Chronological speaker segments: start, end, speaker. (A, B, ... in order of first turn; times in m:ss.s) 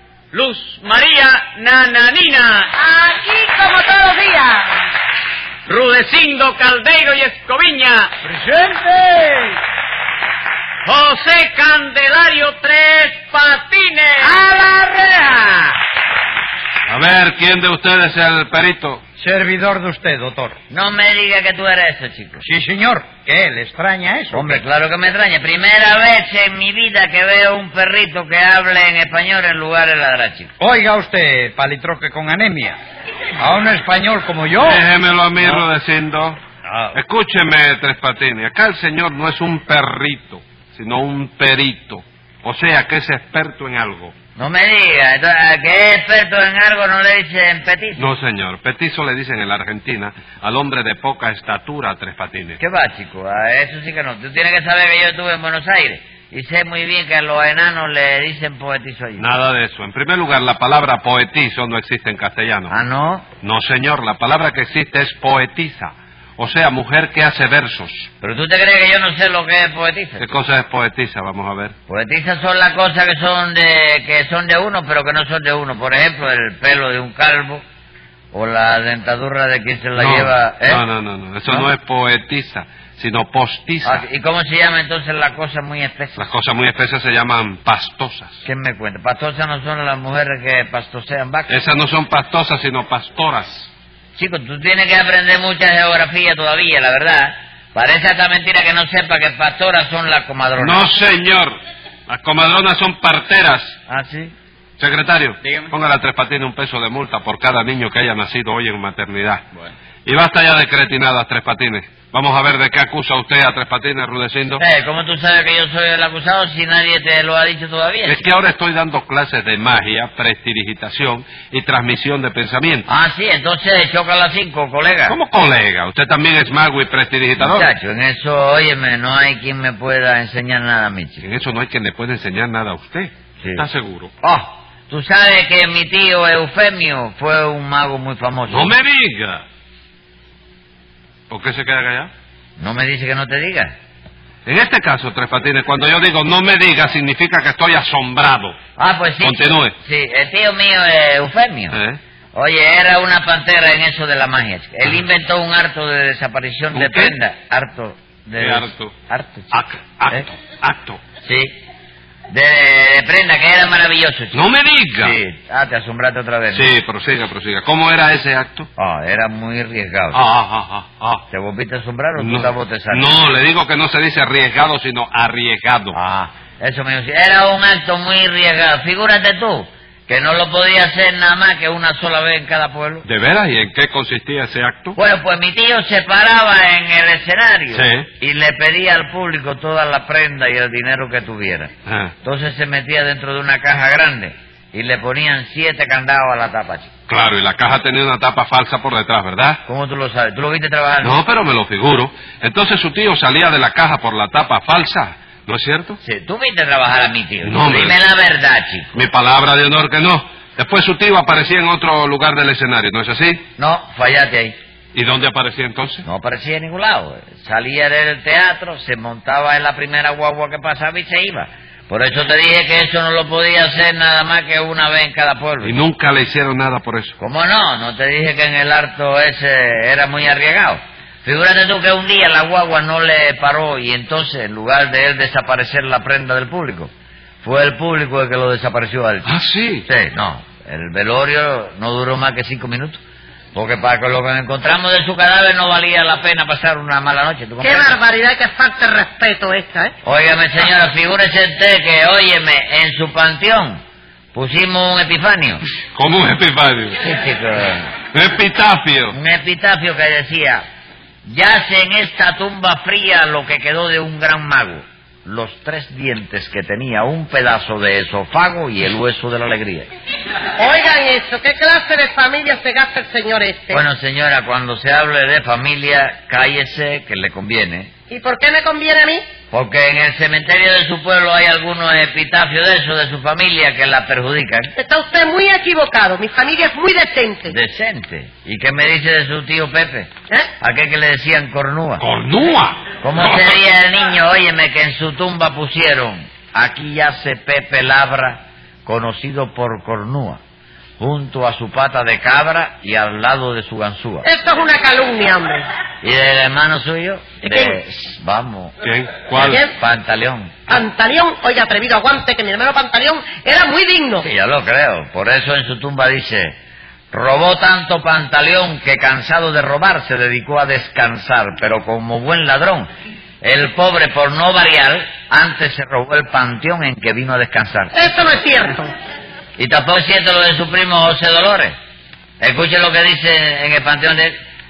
0:00.3-0:02.7 A
0:02.7-0:04.8 B
0:05.7-0:08.2 A
0:10.8-0:14.5 A
0:14.3-0:15.5 B
0:16.9-0:19.0 C
0:19.2-0:20.6 D
0:20.7-0:22.4 E
0:22.4-0:24.6 D
0:24.3-0:30.5 E
0:30.6-0:32.8 D
0:33.4-0:34.8 D
0:34.6-0:36.4 C
0:35.4-0:35.6 D
0:36.6-0:37.0 D
0:36.9-0:44.1 C
0:44.4-0:48.1 E
0:48.0-0:52.6 C
0:52.6-0:59.3 E
0:59.2-1:02.7 C
1:02.7-1:03.3 E
1:03.4-1:08.1 C
1:08.2-1:10.3 E
1:10.2-1:11.7 C
1:11.9-1:17.6 E
1:18.3-1:20.8 E
1:20.0-1:24.0 C
1:23.8-1:26.2 E
1:26.2-1:28.4 C
1:28.4-1:31.6 E
1:31.5-1:33.7 C
1:34.2-1:40.9 E
1:40.6-1:43.8 C
1:43.9-1:44.3 E
1:44.8-1:49.4 C
1:45.4-1:45.7 A
1:50.0-1:54.6 C
1:54.6-1:58.2 E
1:58.0-2:02.9 C
2:02.9-2:05.2 E
2:05.1-2:07.7 C
2:07.4-2:11.2 E
2:11.2-2:14.1 C
2:14.2-2:18.7 E
2:18.5-2:19.4 C
2:21.3-2:22.1 C
2:22.6-2:23.7 E
2:24.5-2:28.6 C
2:28.8-2:31.8 E
2:29.2-2:29.7 C
2:31.7-2:32.0 C
2:32.4-2:40.2 E
2:36.7-2:37.2 C
2:38.4-2:38.9 C
2:39.5-2:41.0 C
2:41.2-2:41.6 E
2:42.3-2:44.4 E
2:44.3-2:45.2 C
2:45.0-2:46.7 E
2:46.5-2:48.7 C
2:48.8-2:50.2 E
2:50.1-2:51.2 C
2:51.3-2:53.1 E
2:52.2-2:56.0 C
2:55.9-3:03.0 E
3:03.0-3:05.0 C
3:05.0-3:11.7 E
3:07.7-3:08.1 C
3:11.9-3:12.1 C
3:12.2-3:16.9 E
3:17.1-3:19.6 C
3:19.7-3:21.2 E
3:21.0-3:26.0 C
3:26.0-3:28.9 E
3:27.4-3:28.0 C
3:28.9-3:33.4 C
3:33.6-3:34.6 E
3:34.9-3:36.0 C
3:36.0-3:45.8 E
3:45.6-3:47.2 C
3:47.2-3:56.9 E
3:57.4-4:03.0 E
3:59.3-3:59.8 C
4:03.5-4:08.0 E
4:07.6-4:09.9 B
4:10.0-4:13.8 E
4:14.3-4:15.6 E
4:16.0-4:17.0 C
4:17.0-4:17.9 E
4:18.1-4:19.2 C
4:19.1-4:20.6 E
4:21.2-4:29.9 E
4:30.6-4:33.8 B
4:33.7-4:37.9 E
4:38.1-4:39.2 B
4:39.5-4:44.7 E
4:44.7-4:47.6 B
4:47.5-4:52.0 E
4:52.0-4:53.6 C
4:53.0-5:00.4 E
5:01.0-5:04.3 E
5:04.2-5:05.6 B
5:06.0-5:08.8 E
5:07.4-5:07.8 B
5:08.8-5:09.6 C
5:09.4-5:09.8 B
5:09.7-5:10.8 E
5:10.7-5:14.3 B
5:14.2-5:16.6 E
5:17.1-5:22.9 E
5:23.4-5:28.1 E
5:27.9-5:28.9 B
5:29.6-5:31.8 E
5:32.4-5:34.4 E